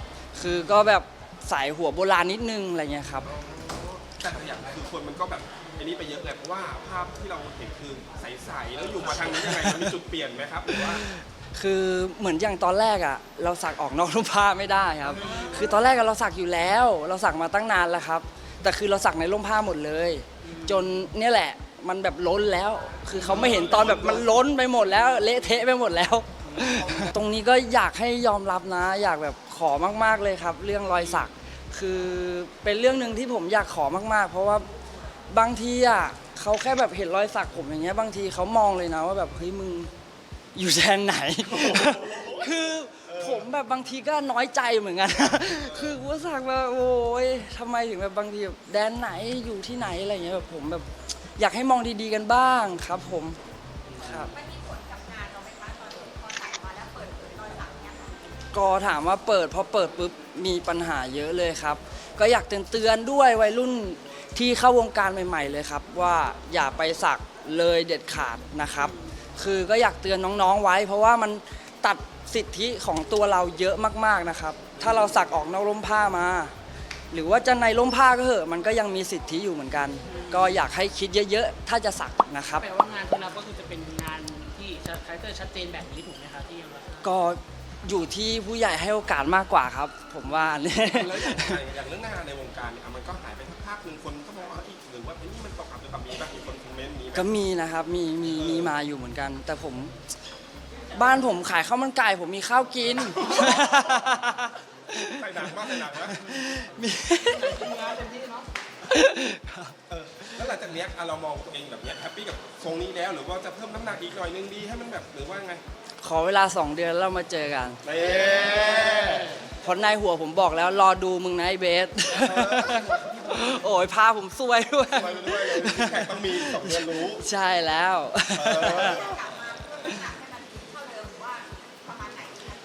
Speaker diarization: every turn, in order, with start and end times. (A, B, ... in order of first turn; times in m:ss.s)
0:00.3-0:03.3 A
0:03.2-0:11.0 B
0:09.2-0:09.9 A
0:10.7-0:34.7 A
0:15.1-0:15.8 C
0:20.4-0:20.9 C
0:23.2-0:24.5 B
0:26.4-0:26.8 C
0:26.8-0:27.1 B
0:35.3-0:39.9 A
0:40.5-0:53.4 A
0:41.5-0:43.4 B
0:45.3-0:46.0 B
0:53.9-0:54.3 B
0:54.0-0:54.4 A
0:54.4-0:58.2 D
0:58.5-1:16.5 A
1:14.8-1:15.1 B
1:17.1-1:22.7 A
1:20.0-1:20.6 C
1:22.6-1:27.1 C
1:27.0-1:31.6 A
1:30.8-1:37.3 B
1:37.1-1:39.9 A
1:38.2-1:38.7 B
1:40.9-1:47.7 A
1:43.1-1:44.0 B
1:45.0-1:46.2 B
1:47.2-1:48.5 C
1:48.8-1:50.4 A
1:49.9-1:55.6 B
1:56.0-1:57.8 A
1:57.8-1:59.3 B
1:58.0-1:59.5 C
1:59.6-2:09.1 A
2:02.2-2:03.0 B
2:02.7-2:03.6 C
2:04.9-2:07.2 B
2:08.3-2:09.2 B
2:09.2-2:12.5 D